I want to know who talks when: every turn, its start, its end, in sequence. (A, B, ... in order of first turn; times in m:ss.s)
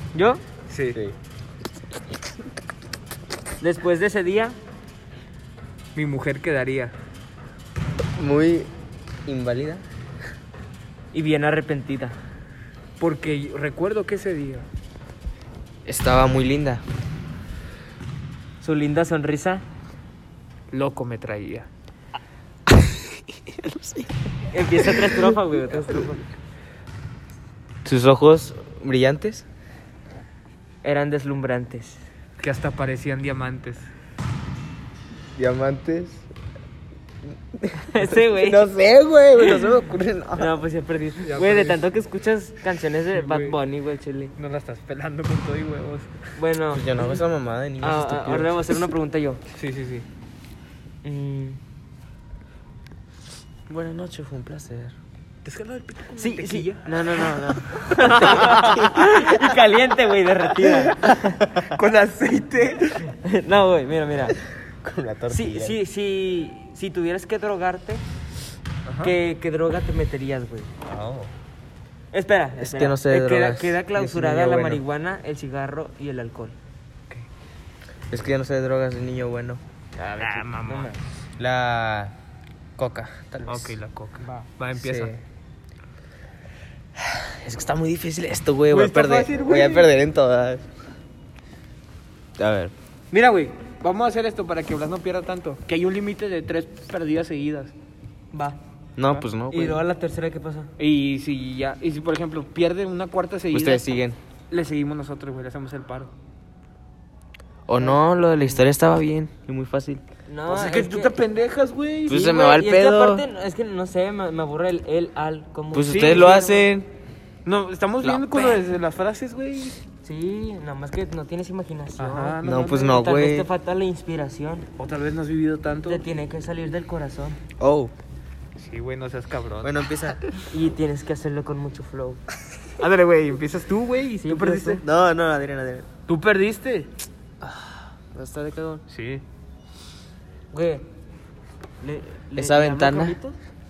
0:00.1-0:00.4 A
0:00.7-0:01.0 B
0:03.6-0:04.6 A
0:05.9-0:06.9 B
0:08.2-0:08.7 C
0:09.3-0:09.8 C
0:11.1-0:12.2 A
0:13.0-0:14.7 B
0:15.8-0:16.8 C
0:18.6-0:19.6 A
0:20.7-0:21.7 B
0:23.5-0:24.1 C
0:24.5-0:26.2 A
0:27.8-0:29.4 C
0:30.8-0:32.0 A
0:32.4-0:33.9 B
0:35.4-0:36.2 C
0:37.6-0:40.5 C
0:37.9-0:38.7 A
0:39.4-0:39.7 A
0:40.4-0:44.3 A
0:41.2-0:41.8 B
0:43.1-0:43.6 B
0:44.4-0:46.3 B
0:46.4-0:47.2 A
0:46.7-0:48.8 C
0:47.8-0:49.4 A
0:49.5-0:50.0 B
0:51.0-0:51.6 A
0:53.7-0:54.9 C
0:55.4-0:59.3 B
0:56.2-1:01.4 A
0:58.5-0:58.9 C
1:00.9-1:03.1 B
1:03.1-1:04.4 A
1:04.8-1:05.8 C
1:05.3-1:08.0 A
1:08.8-1:09.1 B
1:09.0-1:10.7 A
1:10.8-1:11.3 B
1:12.1-1:16.6 A
1:12.6-1:14.8 C
1:18.1-1:19.6 C
1:20.0-1:21.0 A
1:20.1-1:21.0 B
1:21.4-1:22.1 C
1:22.8-1:23.8 C
1:23.5-1:25.2 B
1:24.8-1:25.1 C
1:27.2-1:30.6 C
1:28.7-1:29.9 B
1:32.4-1:32.7 C
1:33.1-1:37.7 B
1:38.3-1:38.6 A
1:39.0-1:39.8 C
1:39.5-1:40.7 A
1:40.8-1:43.8 B
1:43.5-1:44.2 C
1:44.5-1:46.1 B
1:47.7-1:50.0 C
1:50.3-1:51.1 A
1:50.5-1:52.3 B
1:52.1-1:53.2 C
1:52.1-1:56.6 A
1:55.7-1:56.9 C
1:55.8-1:56.4 B
1:57.4-1:59.8 B
1:58.0-1:58.4 C
2:00.0-2:04.7 A
2:02.0-2:03.0 B
2:02.4-2:03.5 C
2:04.8-2:06.0 B
2:05.8-2:07.4 A
2:07.6-2:07.9 C
2:08.6-2:09.8 B
2:09.6-2:10.2 C
2:10.5-2:12.2 A
2:12.8-2:14.8 B
2:14.2-2:14.8 A
2:14.8-2:15.9 C
2:16.1-2:16.9 B
2:18.1-2:18.8 C
2:18.9-2:19.2 B
2:20.5-2:20.9 A
2:21.8-2:23.4 A
2:22.3-2:23.2 C